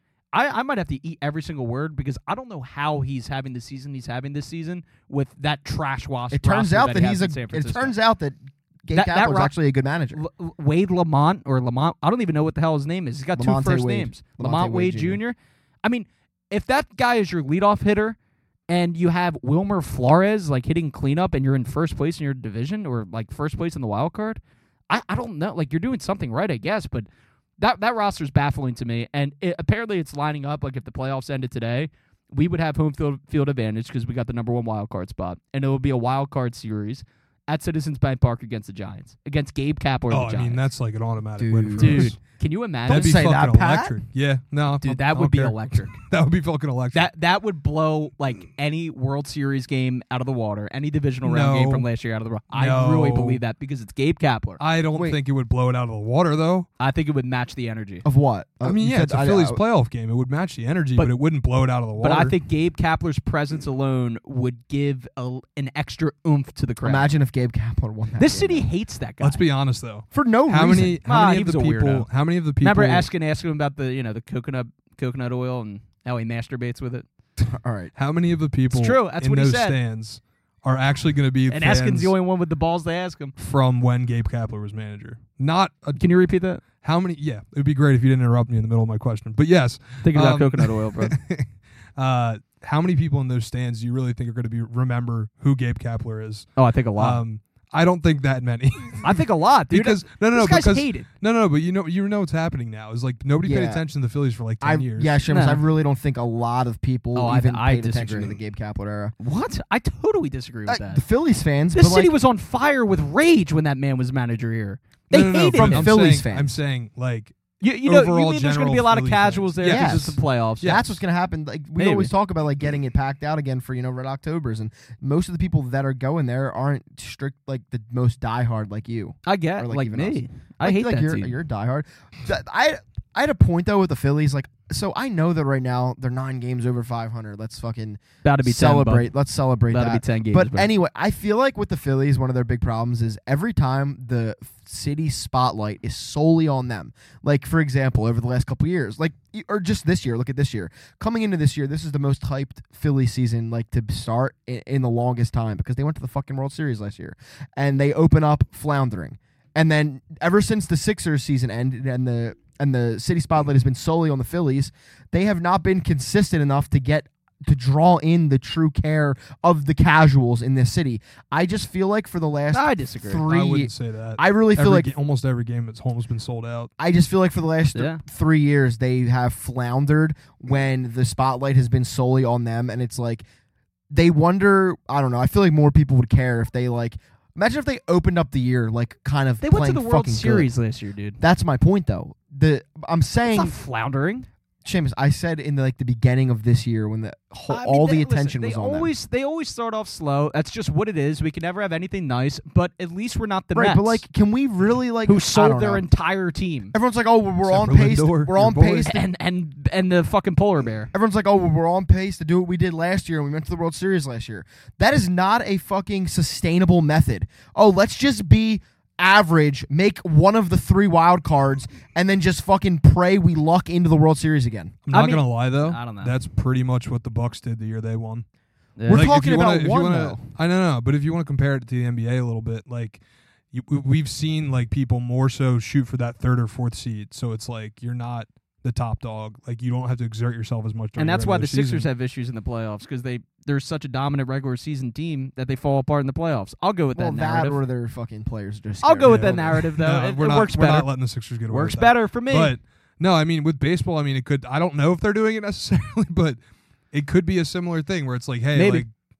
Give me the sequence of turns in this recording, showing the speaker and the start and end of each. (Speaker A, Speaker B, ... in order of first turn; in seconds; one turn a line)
Speaker A: 0.3-7.9
Speaker B: 6.3-10.2
Speaker A: 8.9-9.5
Speaker A: 10.1-18.1
Speaker B: 13.3-15.2
Speaker A: 18.7-27.1
Speaker A: 27.6-40.6
Speaker C: 40.1-42.2
Speaker B: 41.4-42.1
Speaker A: 41.8-43.2
Speaker B: 42.9-44.0
Speaker C: 42.9-47.1
Speaker A: 44.8-46.0
Speaker A: 46.9-54.6
Speaker C: 51.2-51.9
Speaker C: 52.5-53.4
Speaker C: 54.6-56.7
Speaker A: 56.8-58.0
Speaker B: 58.0-59.6
Speaker C: 58.6-62.3
Speaker A: 62.0-67.1
Speaker B: 66.8-68.7
Speaker A: 68.2-69.4
Speaker C: 69.2-73.1
Speaker B: 70.1-71.0
Speaker A: 71.0-72.1
Speaker A: 72.6-77.0
Speaker B: 77.5-77.9
Speaker C: 78.0-82.1
Speaker A: 78.7-79.8
Speaker A: 81.5-83.3
Speaker C: 83.4-86.0
Speaker A: 86.0-86.6
Speaker C: 86.6-105.2
Speaker A: 90.0-91.1
Speaker A: 96.5-97.2
Speaker A: 99.0-101.1
Speaker B: 103.4-103.8
Speaker B: 104.6-109.1
Speaker A: 105.3-105.6
Speaker A: 107.1-108.3
Speaker A: 109.2-111.0
Speaker B: 110.7-112.1
Speaker A: 111.7-115.9
Speaker C: 115.1-120.9
Speaker B: 115.5-116.5
Speaker A: 117.6-120.8
Speaker B: 119.6-174.9
Speaker A: 121.8-122.1
Speaker A: 129.2-131.3
Speaker A: 138.2-139.1
Speaker A: 139.7-140.7
Speaker A: 172.5-173.3
Speaker C: 173.3-176.7
Speaker B: 176.8-183.2
Speaker A: 177.7-178.0
Speaker B: 183.9-190.5
Speaker A: 189.4-191.2
Speaker B: 191.2-193.5
Speaker A: 193.3-194.3
Speaker B: 194.6-198.9
Speaker A: 197.5-204.0
Speaker B: 203.5-205.8
Speaker A: 205.1-206.7
Speaker B: 206.7-209.0
Speaker C: 207.4-208.9
Speaker A: 208.8-210.9
Speaker B: 210.9-224.8
Speaker C: 224.9-228.2
Speaker A: 224.9-226.2
Speaker A: 228.8-229.1
Speaker B: 228.9-230.2
Speaker C: 228.9-233.0
Speaker C: 233.5-241.9
Speaker A: 241.0-247.6
Speaker B: 246.9-249.6
Speaker A: 248.8-250.9
Speaker C: 249.0-256.4
Speaker A: 251.5-252.5
Speaker C: 256.9-258.9
Speaker A: 258.5-258.8